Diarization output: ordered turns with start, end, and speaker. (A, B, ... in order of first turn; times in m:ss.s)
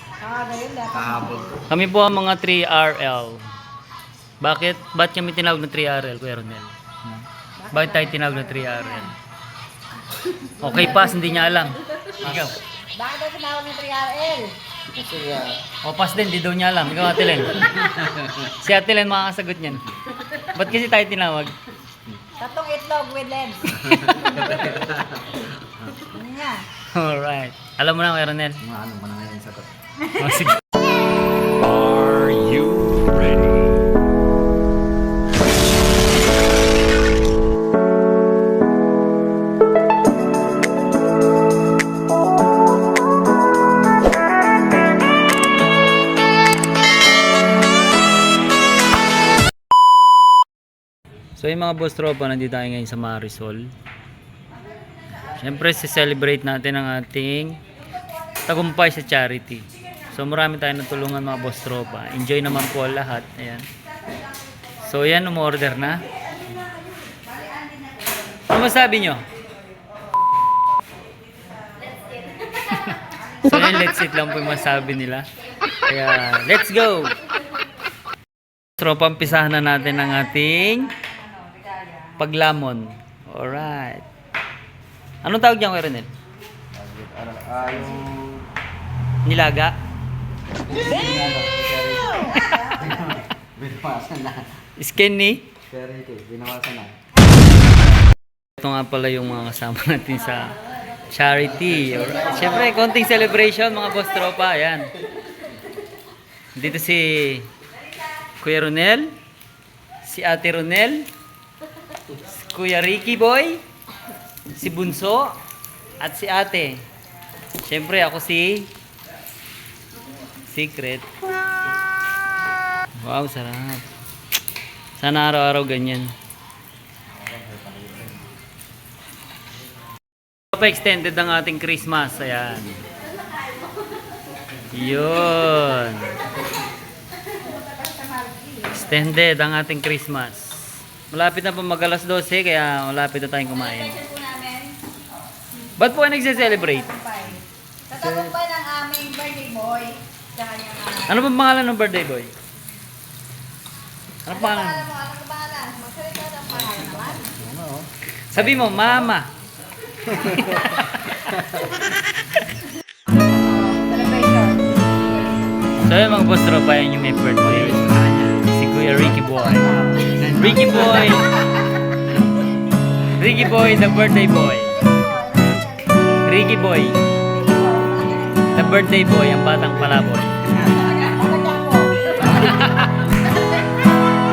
0:00.2-0:01.6 A
0:00.9-0:01.6 B
0:01.7-0:03.4 C
0:04.4-0:09.1 C
0:07.6-0:09.1 A
0:10.6-0:12.6 C
0:12.9-0:14.5 A
0:15.0-0:15.5 B
0:15.8-0:21.5 C
0:22.4-0:23.8 A
0:23.8-0:24.1 C
0:23.9-0:25.4 B
0:26.0-0:26.6 A
0:26.9-0:28.6 C
0:28.6-0:29.7 B
0:30.0-0:30.4 A
0:30.2-0:30.6 C
0:31.6-0:33.8 C
0:51.4-0:53.7 C
0:55.3-0:57.6 C
0:58.4-1:03.7 C
1:04.8-1:06.0 C
1:07.1-1:07.6 A
1:08.5-1:09.2 C
1:12.6-1:15.3 C
1:15.9-1:17.2 C
1:18.8-1:20.9 C
1:22.2-1:24.0 C
1:25.2-1:26.1 C
1:26.7-1:28.5 B
1:29.2-1:29.7 C
1:30.6-1:34.5 B
1:34.8-1:35.4 C
1:35.7-1:36.9 B
1:38.6-1:44.9 C
1:46.5-1:47.5 C
1:48.4-1:49.1 C
1:50.0-1:51.1 C
1:52.3-1:53.6 C
1:54.5-1:55.3 C
1:56.0-1:56.8 C
1:57.6-1:58.7 C
2:00.5-2:01.0 C
2:03.0-2:03.9 C
2:05.0-2:06.1 C
2:07.4-2:08.1 B
2:10.5-2:12.8 C
2:14.7-2:16.2 C
2:17.3-2:19.0 A
2:18.7-2:24.0 C
2:23.5-2:24.8 A
2:25.8-2:26.9 C
2:26.4-2:31.2 A
2:28.0-2:28.3 B
2:31.1-2:32.3 C
2:34.2-2:34.8 C
2:34.3-2:37.4 A
2:37.4-2:37.9 B
2:38.3-2:39.3 C
2:40.1-2:40.6 B
2:40.2-2:41.3 C
2:43.4-2:44.8 A
2:45.8-2:47.9 C
2:47.4-2:48.4 B
2:48.4-2:51.3 C
2:50.1-2:51.2 B
2:53.1-2:54.7 C
2:54.8-2:58.8 A
2:56.2-2:57.0 C
2:58.5-3:00.3 C
3:00.6-3:01.9 A
3:02.2-3:03.0 C